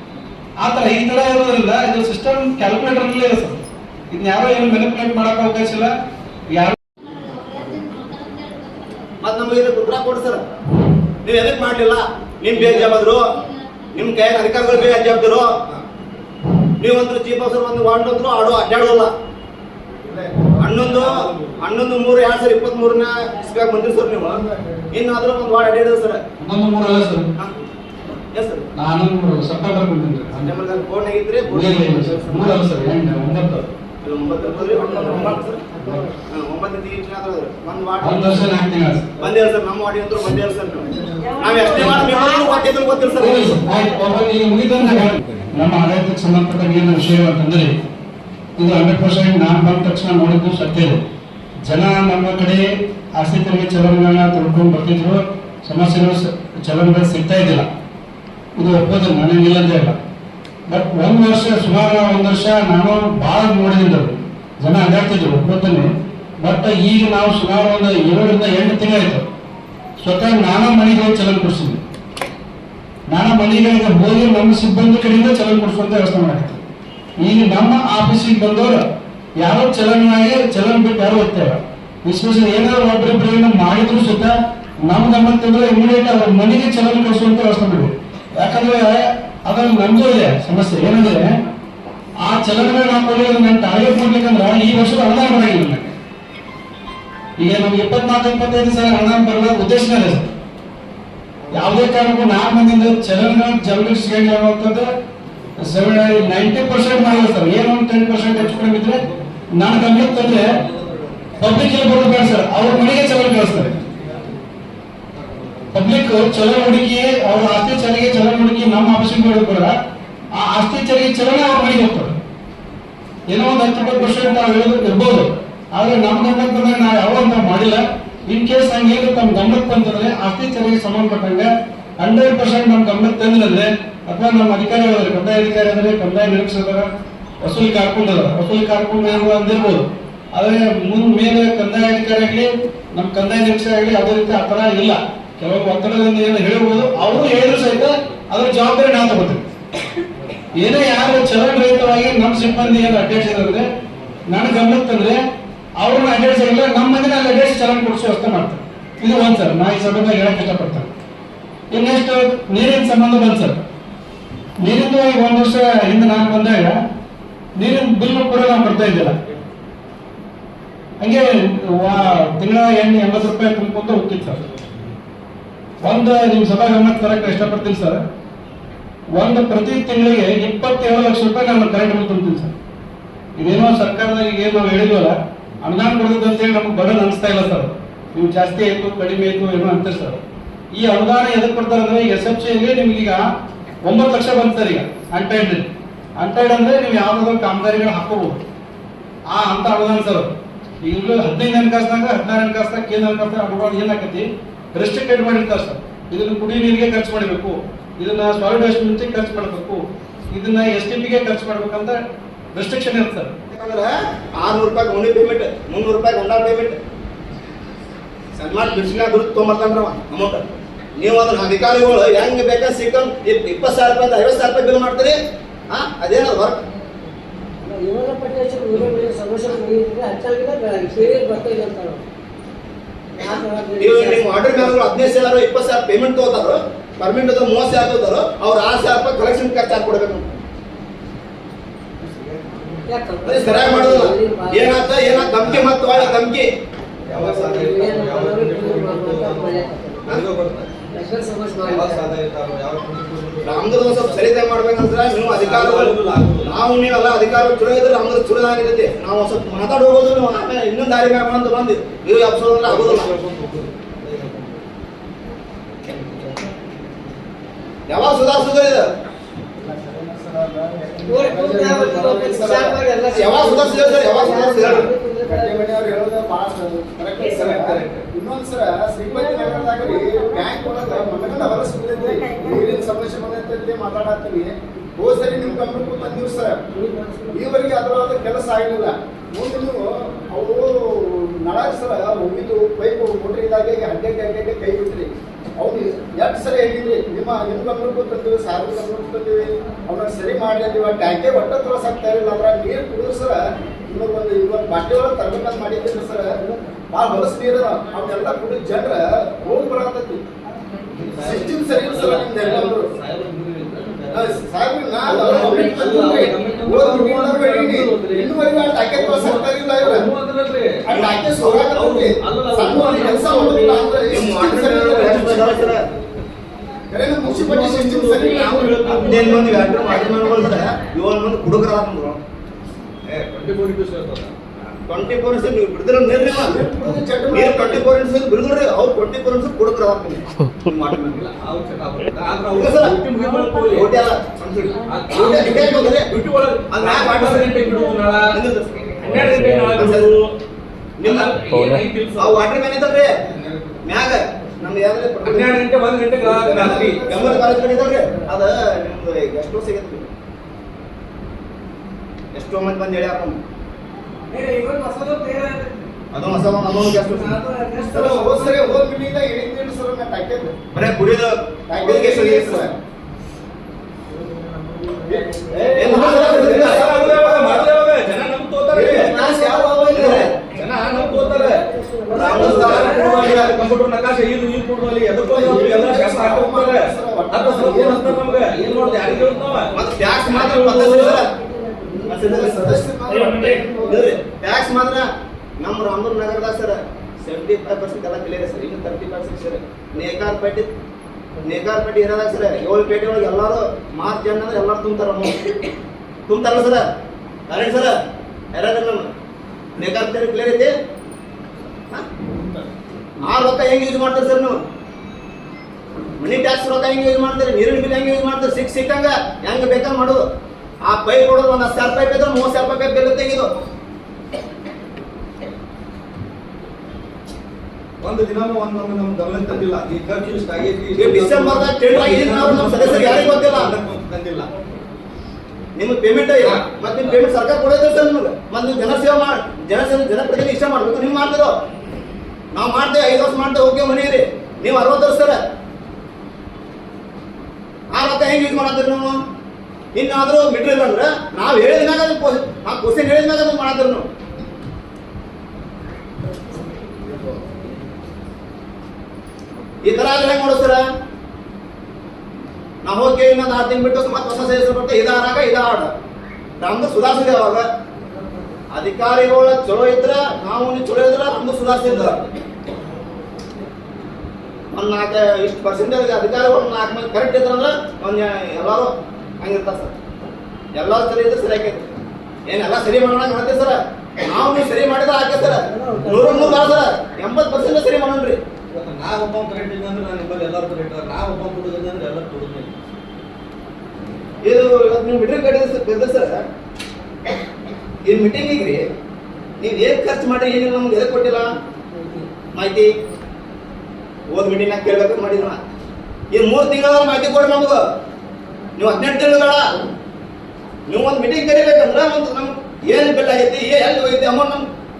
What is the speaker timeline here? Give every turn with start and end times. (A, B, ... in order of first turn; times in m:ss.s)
0:00.6-0:05.9 A
0:09.2-0:10.4 B
0:11.2-0:13.4 B
0:12.5-0:12.9 C
0:13.9-0:15.5 B
0:14.6-0:15.0 C
0:16.8-0:19.1 B
0:20.0-0:21.7 C
0:20.6-0:24.4 B
0:24.3-0:24.7 D
0:24.9-0:26.2 B
0:26.4-0:27.3 A
0:28.3-0:28.7 B
0:28.7-0:30.5 A
0:30.4-0:32.7 B
0:31.5-0:33.7 A
0:34.0-0:35.7 B
0:34.4-0:36.1 E
0:36.3-0:43.6 B
0:38.0-0:39.0 A
0:40.9-0:41.3 C
0:41.7-0:42.1 A
0:43.2-0:47.7 A
0:48.6-0:51.0 A
0:51.6-0:52.6 A
0:53.2-0:57.7 A
0:58.6-1:00.0 A
1:00.7-1:05.9 A
1:06.4-1:09.2 A
1:10.0-1:11.8 A
1:13.1-1:16.6 A
1:17.2-1:18.8 A
1:19.4-1:24.3 A
1:24.8-1:31.3 A
1:32.2-1:35.9 A
1:37.4-1:40.4 A
1:41.4-1:41.7 C
1:41.5-1:44.9 A
1:45.6-1:49.0 A
1:48.3-1:49.4 C
1:49.6-1:50.5 A
1:49.9-1:51.6 C
1:51.4-1:53.8 A
1:53.4-1:54.4 C
1:55.1-1:55.8 C
1:55.7-1:59.7 A
2:00.4-2:02.1 A
2:03.3-2:11.5 A
2:12.0-2:16.9 A
2:17.4-2:29.4 A
2:30.5-2:33.7 A
2:32.3-2:34.2 C
2:34.3-2:35.2 A
2:35.8-2:40.9 A
2:41.7-2:43.6 A
2:44.6-2:46.7 A
2:47.6-2:49.2 A
2:51.0-2:54.4 A
2:55.8-2:58.0 A
2:59.2-3:02.5 A
3:03.4-3:10.2 A
3:10.7-3:13.2 A
3:13.8-3:18.4 A
3:19.3-3:20.3 A
3:20.8-3:32.0 A
3:32.5-3:33.3 A
3:33.5-3:36.7 B
3:38.3-3:40.4 B
3:41.0-3:45.2 B
3:45.7-3:46.6 B
3:47.6-3:52.0 E
3:53.2-3:54.7 E
3:53.8-4:00.3 B
4:02.0-4:02.9 C
4:02.8-4:05.4 E
4:03.2-4:06.5 B
4:05.4-4:06.2 C
4:07.1-4:10.7 C
4:07.1-4:10.2 E
4:10.9-4:12.2 E
4:11.6-4:14.3 C
4:13.4-4:23.1 B
4:15.2-4:16.6 C
4:22.6-4:24.6 C
4:25.8-4:26.5 C
4:27.9-4:28.9 B
4:29.6-4:32.7 D
4:31.0-4:35.8 E
4:32.5-4:34.9 B
4:34.3-4:34.9 C
4:35.2-4:46.6 D
4:37.2-4:38.1 C
4:40.4-4:41.2 E
4:41.9-4:42.9 E
4:46.7-4:47.4 E
4:47.3-5:06.3 D
5:04.9-5:05.8 B
5:06.9-5:10.2 D
5:10.9-5:14.5 C
5:11.3-5:12.9 D
5:14.1-5:20.1 D
5:15.0-5:21.1 C
5:20.9-5:24.9 D
5:20.9-5:21.7 B
5:21.7-5:24.0 C
5:24.1-5:25.8 B
5:24.8-5:25.9 C
5:26.9-5:28.7 D
5:27.2-5:29.8 C
5:28.3-5:29.5 E
5:28.8-5:32.2 B
5:33.0-5:34.3 C
5:34.9-5:36.6 B
5:36.3-5:37.9 D
5:37.3-5:41.3 B
5:41.0-5:48.4 C
5:42.5-5:43.0 B
5:43.7-5:44.4 B
5:45.1-5:46.1 B
5:46.7-5:47.7 B
5:48.3-5:50.1 B
5:49.0-5:50.3 C
5:51.0-5:53.1 B
5:51.0-5:53.9 C
5:53.8-5:55.6 B
5:55.2-5:57.5 C
5:56.2-6:00.0 B
5:56.5-5:57.2 D
5:57.4-5:58.3 E
6:02.3-6:03.4 B
6:04.3-6:05.7 E
6:06.1-6:07.4 B
6:07.0-6:08.2 E
6:07.8-6:10.6 D
6:08.0-6:08.8 C
6:10.7-6:12.6 B
6:11.7-6:12.7 D
6:14.1-6:16.8 E
6:15.1-6:31.2 C
6:15.7-6:17.7 B
6:18.8-6:20.4 B
6:18.9-6:23.5 E
6:22.1-6:23.5 B
6:25.2-6:26.4 B
6:25.4-6:28.3 D
6:29.0-6:31.3 B
6:31.4-6:32.2 E
6:31.8-6:34.0 D
6:32.1-6:35.0 B
6:33.2-6:33.6 C
6:35.6-6:40.7 B
6:41.4-6:45.4 B
6:46.3-6:46.8 B
6:47.5-6:47.9 B
6:48.5-6:49.1 B
6:49.8-6:50.7 B
6:53.2-6:54.5 B
6:56.2-7:00.2 B
7:00.8-7:03.5 B
7:08.0-7:14.5 C
7:11.0-7:13.7 B
7:15.8-7:21.5 B
7:16.4-7:17.2 C
7:22.5-7:25.4 B
7:27.9-7:29.1 B
7:29.9-7:34.0 B
7:39.8-7:40.8 B
7:42.8-7:45.9 B
7:46.6-7:47.6 B
7:48.7-7:52.3 B
7:51.7-7:52.1 C
7:54.7-7:59.9 B
8:00.7-8:01.9 B
8:02.4-8:08.4 B
8:05.4-8:06.8 E
8:08.7-8:12.8 C
8:14.4-8:16.4 B
8:18.0-8:18.8 B
8:19.6-8:21.5 B
8:22.0-8:22.3 E
8:22.5-8:22.9 B
8:24.3-8:25.6 B
8:26.3-8:27.8 B
8:28.8-8:29.6 B
8:30.9-8:34.6 B